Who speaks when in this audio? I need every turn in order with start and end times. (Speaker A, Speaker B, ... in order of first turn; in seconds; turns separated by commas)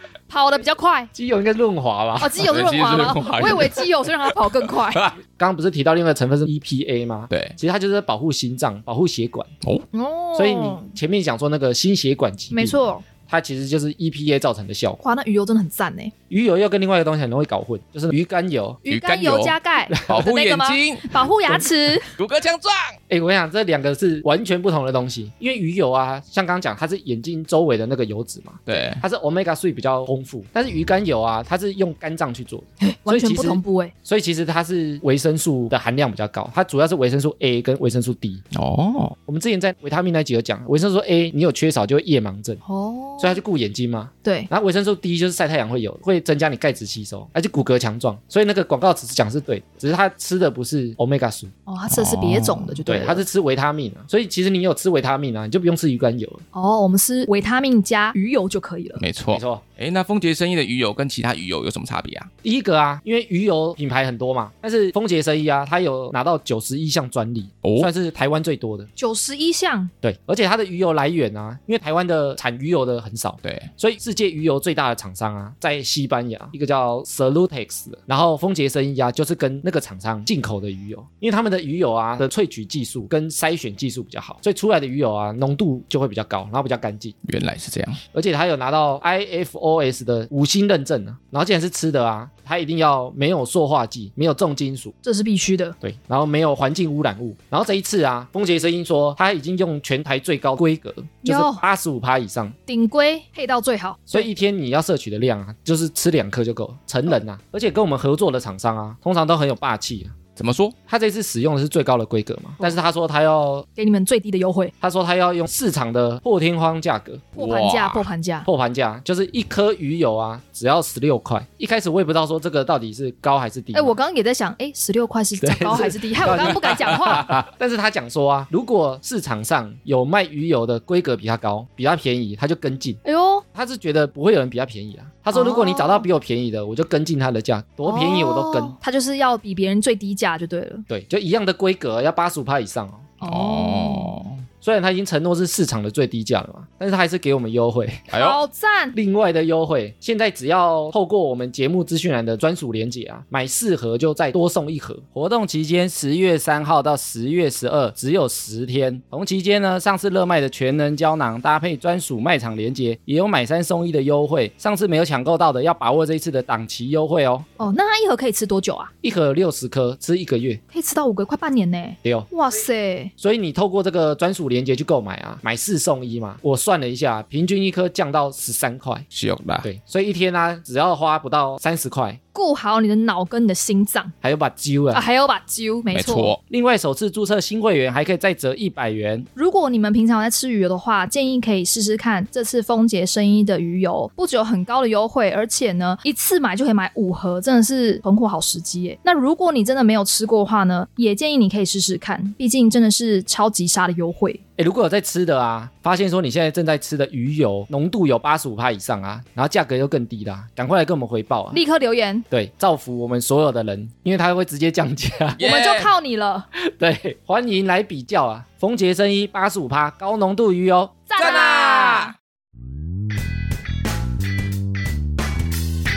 Speaker A: 0.3-1.1, Speaker B: 1.1-3.2, Speaker A: 2.2-5.1, Speaker C: 2.4-5.1, Speaker B: 5.3-9.5, Speaker C: 7.3-7.6, Speaker A: 9.9-10.9, Speaker B: 10.3-15.0, Speaker A: 12.5-13.0, Speaker A: 15.0-16.1, Speaker B: 16.3-18.8, Speaker C: 18.9-21.2, Speaker A: 18.9-22.1, Speaker B: 19.9-20.2, Speaker C: 22.1-23.0, Speaker B: 23.1-38.4, Speaker C: 28.7-29.0, Speaker A: 32.8-33.9, Speaker C: 38.5-39.2, Speaker B: 39.3-42.6, Speaker A: 42.6-43.4, Speaker B: 43.2-51.5, Speaker A: 51.7-53.2, Speaker C: 51.9-52.8, Speaker B: 52.9-56.4, Speaker A: 56.5-59.0, Speaker C: 59.0-62.3, Speaker B: 59.3-59.6, Speaker B: 62.4-68.9, Speaker C: 67.6-67.9, Speaker A: 69.0-69.9, Speaker B: 70.0-87.2, Speaker C: 73.4-73.7, Speaker C: 87.2-88.0, Speaker B: 88.1-94.9, Speaker A: 95.0-95.8, Speaker B: 95.8-102.5, Speaker A: 101.2-101.6, Speaker A: 102.7-104.3, Speaker B: 104.1-110.2, Speaker C: 110.4-110.8, Speaker B: 110.9-113.7, Speaker A: 113.8-114.7, Speaker B: 114.8-117.3, Speaker A: 117.4-118.5, Speaker C: 117.4-118.1, Speaker B: 118.5-123.9, Speaker A: 123.7-127.3, Speaker B: 125.4-133.0, Speaker A: 133.0-133.4, Speaker B: 133.5-138.8, Speaker A: 135.3-136.1, Speaker A: 137.9-140.9, Speaker B: 140.9-143.2, Speaker A: 143.2-144.2, Speaker C: 143.2-144.4, Speaker B: 144.6-148.1, Speaker C: 148.1-148.4, Speaker A: 148.1-149.0, Speaker B: 148.9-167.5, Speaker A: 167.6-168.9, Speaker B: 169.0-170.6, Speaker A: 170.7-173.1, Speaker B: 172.0-172.3, Speaker B: 173.2-179.1, Speaker C: 179.1-179.7, Speaker B: 179.6-182.2, Speaker A: 182.3-184.1, Speaker B: 184.2-185.0, Speaker A: 184.9-186.3, Speaker C: 185.9-186.4, Speaker B: 186.5-189.3, Speaker A: 189.4-204.4, Speaker B: 204.6-211.6, Speaker A: 211.5-212.2, Speaker B: 212.3-215.4, Speaker C: 215.4-215.9, Speaker A: 215.4-216.5, Speaker B: 216.6-221.1, Speaker A: 221.1-222.1, Speaker C: 221.2-222.2